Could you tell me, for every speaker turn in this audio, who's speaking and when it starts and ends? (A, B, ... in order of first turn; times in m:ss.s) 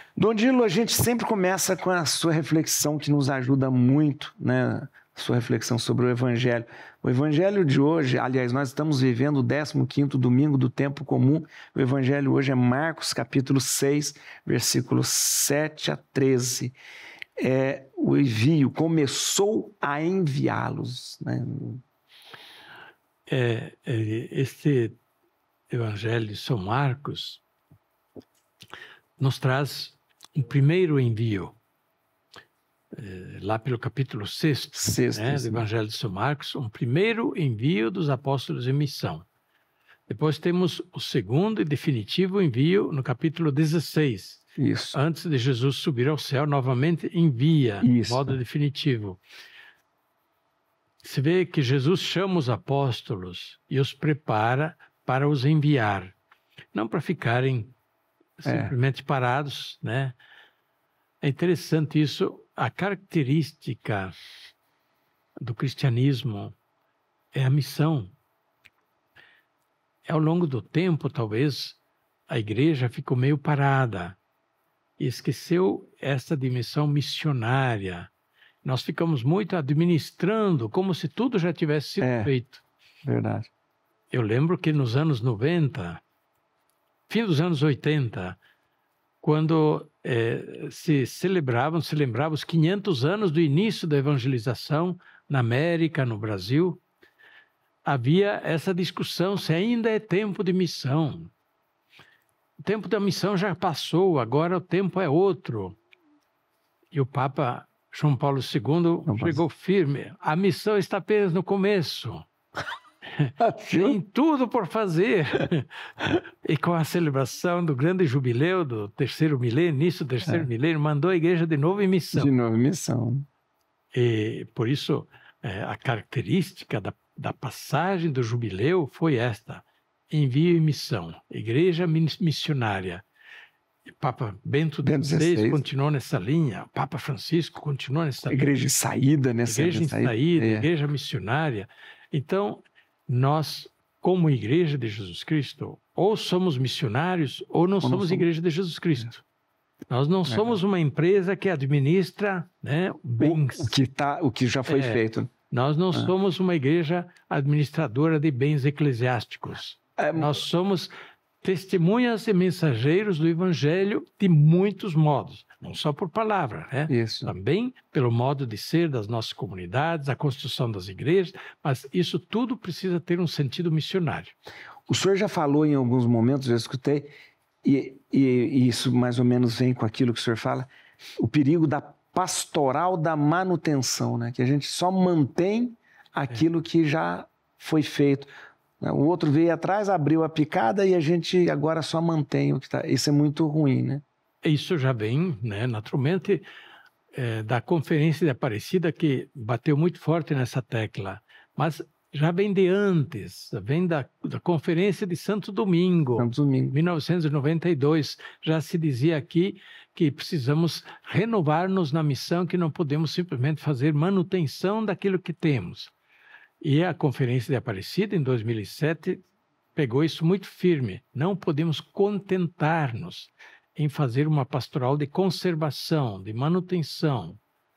0:00.2-0:16.8 A
0:17.4-0:21.8 A
0:23.3-0:25.0 B
0:25.7-0:27.4 B
0:29.2-0:31.5 B
0:32.9-0:39.2 B
0:34.7-0:35.6 A
0:40.1-0:49.2 B
0:44.6-0:45.0 A
0:47.8-0:48.4 A
0:51.0-0:56.2 B
0:56.7-0:57.7 B
0:58.4-1:00.2 B
0:58.4-0:58.7 A
1:01.2-1:04.1 B
1:05.4-1:06.5 B
1:07.3-1:08.1 B
1:10.0-1:14.2 B
1:15.0-1:18.1 B
1:18.6-1:22.6 B
1:22.0-1:22.3 A
1:23.0-1:23.5 A
1:24.1-1:26.0 B
1:27.1-1:28.4 B
1:29.2-1:36.8 B
1:37.8-1:41.3 B
1:42.6-1:45.8 B
1:46.9-1:52.2 B
1:49.0-1:49.4 A
1:53.2-2:02.3 B
1:53.4-1:54.0 A
2:02.1-2:03.2 A
2:03.9-2:13.0 B
2:14.0-2:18.5 B
2:14.8-2:15.6 A
2:18.3-2:20.7 A
2:19.4-2:29.2 B
2:27.8-2:28.3 A
2:29.9-2:33.8 B
2:30.3-2:30.6 A
2:33.2-2:35.3 A
2:34.7-2:40.9 B
2:40.0-2:40.4 A
2:41.4-2:54.3 B
2:46.9-2:47.3 A
2:54.9-2:57.1 A
2:57.6-3:08.3 A
3:08.8-3:14.0 A
3:14.4-3:16.4 B
3:17.1-3:35.9 B
3:26.2-3:26.8 A
3:36.6-3:47.4 B